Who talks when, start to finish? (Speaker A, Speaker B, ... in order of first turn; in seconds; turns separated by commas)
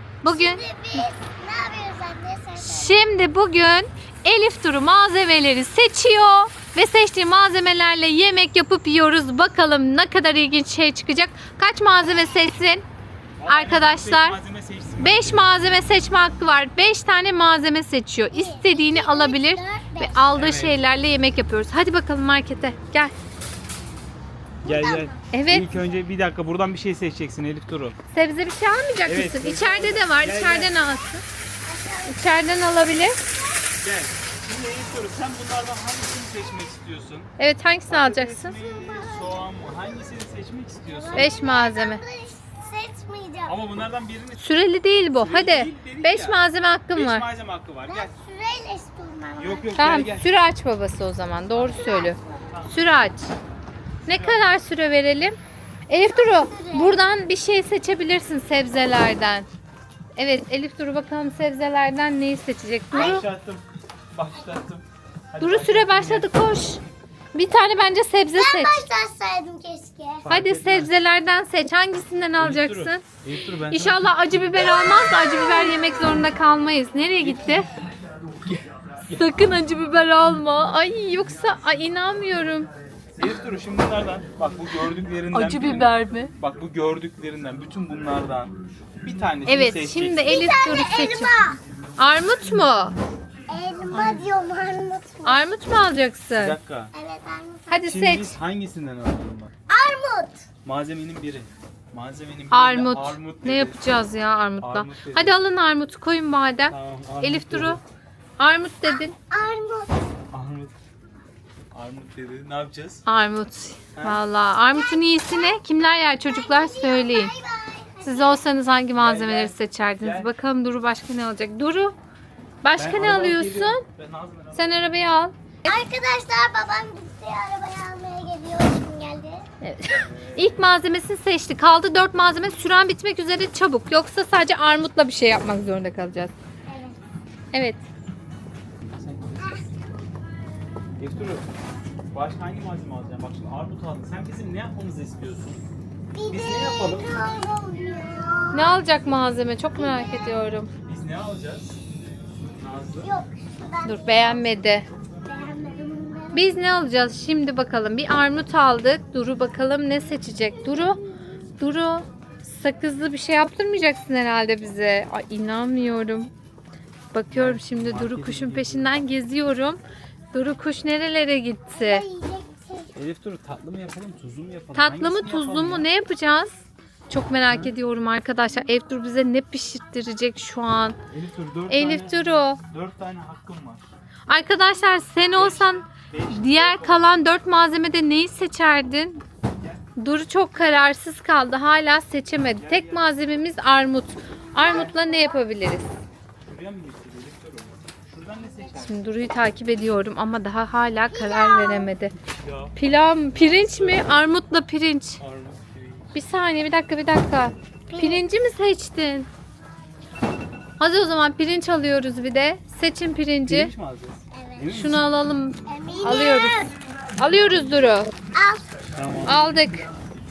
Speaker A: 0.2-1.1, Speaker B: 0.2-3.0, Speaker A: 2.6-12.8, Speaker C: 13.4-15.5, Speaker A: 13.5-14.4, Speaker A: 15.0-23.1, Speaker B: 18.3-20.3, Speaker C: 20.3-20.8, Speaker B: 24.6-25.2, Speaker C: 24.6-28.0, Speaker A: 25.3-25.7, Speaker A: 28.1-31.2, Speaker C: 29.1-30.7, Speaker B: 31.6-32.2, Speaker A: 32.1-33.2, Speaker C: 33.8-37.3, Speaker A: 37.4-38.6, Speaker C: 37.9-41.3, Speaker B: 38.7-39.4, Speaker B: 40.9-43.6, Speaker A: 41.1-42.0, Speaker C: 43.5-44.5, Speaker A: 44.4-47.3, Speaker C: 45.1-46.4, Speaker C: 47.0-48.1, Speaker B: 47.9-49.7, Speaker C: 49.4-50.3, Speaker A: 49.8-53.3, Speaker B: 51.6-52.5, Speaker C: 52.5-52.8, Speaker C: 54.1-54.5, Speaker A: 54.1-55.4, Speaker A: 55.9-59.5, Speaker B: 56.1-57.0, Speaker A: 60.2-63.3, Speaker B: 62.9-63.2, Speaker C: 62.9-66.3, Speaker A: 65.4-66.8, Speaker A: 67.3-68.9, Speaker B: 68.4-70.2, Speaker C: 70.2-70.9, Speaker A: 70.3-73.0, Speaker C: 72.4-74.7, Speaker A: 73.7-77.7, Speaker B: 74.6-76.2, Speaker C: 77.2-77.8, Speaker C: 78.5-79.2, Speaker A: 79.0-82.7, Speaker C: 83.1-90.4, Speaker A: 85.3-86.3, Speaker A: 89.5-91.4, Speaker B: 90.3-91.6, Speaker A: 92.0-93.0, Speaker B: 93.5-95.4, Speaker A: 93.9-94.2, Speaker A: 95.2-96.6, Speaker C: 96.3-96.9, Speaker B: 96.9-97.8, Speaker A: 97.7-98.4, Speaker C: 97.9-99.5, Speaker B: 99.7-100.5, Speaker C: 100.6-103.8, Speaker A: 102.5-107.8, Speaker C: 104.6-105.4, Speaker C: 106.7-107.8, Speaker A: 108.4-109.2, Speaker B: 109.3-109.9, Speaker C: 110.3-110.7, Speaker C: 111.7-113.0, Speaker A: 113.1-117.3, Speaker B: 114.7-115.5, Speaker B: 116.3-118.4, Speaker A: 118.0-122.0, Speaker C: 119.0-120.3, Speaker A: 122.6-123.8, Speaker C: 122.8-125.0, Speaker A: 124.5-125.3, Speaker B: 125.7-129.4, Speaker A: 129.6-136.3, Speaker C: 130.0-130.6, Speaker B: 136.7-137.0, Speaker A: 137.5-137.8, Speaker C: 138.8-139.6, Speaker B: 139.4-139.8, Speaker C: 141.0-141.5, Speaker C: 142.1-145.7, Speaker B: 146.1-148.8, Speaker C: 146.3-147.3, Speaker A: 148.5-150.7, Speaker B: 149.8-150.4, Speaker C: 150.9-151.7, Speaker C: 152.6-153.1, Speaker B: 153.0-154.5, Speaker A: 153.8-154.9, Speaker B: 155.3-156.5, Speaker A: 156.3-161.0, Speaker B: 160.6-161.2, Speaker A: 161.6-166.3, Speaker A: 167.1-169.8, Speaker C: 167.3-168.9, Speaker A: 170.3-172.1, Speaker B: 171.7-172.9, Speaker C: 172.9-175.9, Speaker A: 174.7-176.6, Speaker A: 177.1-181.0, Speaker C: 177.4-177.8, Speaker C: 181.1-183.9, Speaker A: 181.7-182.6, Speaker A: 184.3-189.2, Speaker C: 185.3-187.2, Speaker A: 190.0-195.9, Speaker C: 192.6-193.1, Speaker C: 194.6-194.9, Speaker C: 196.4-199.1, Speaker A: 198.8-202.2, Speaker B: 201.1-201.9, Speaker C: 202.4-202.8, Speaker A: 202.8-205.2, Speaker C: 203.3-204.2, Speaker C: 205.2-206.2, Speaker A: 206.1-209.3, Speaker B: 207.9-208.3, Speaker A: 210.8-213.7, Speaker C: 213.4-215.1, Speaker B: 214.3-214.8, Speaker A: 214.7-218.1, Speaker B: 215.7-216.7, Speaker B: 218.3-218.7, Speaker C: 219.0-219.4, Speaker A: 219.2-219.9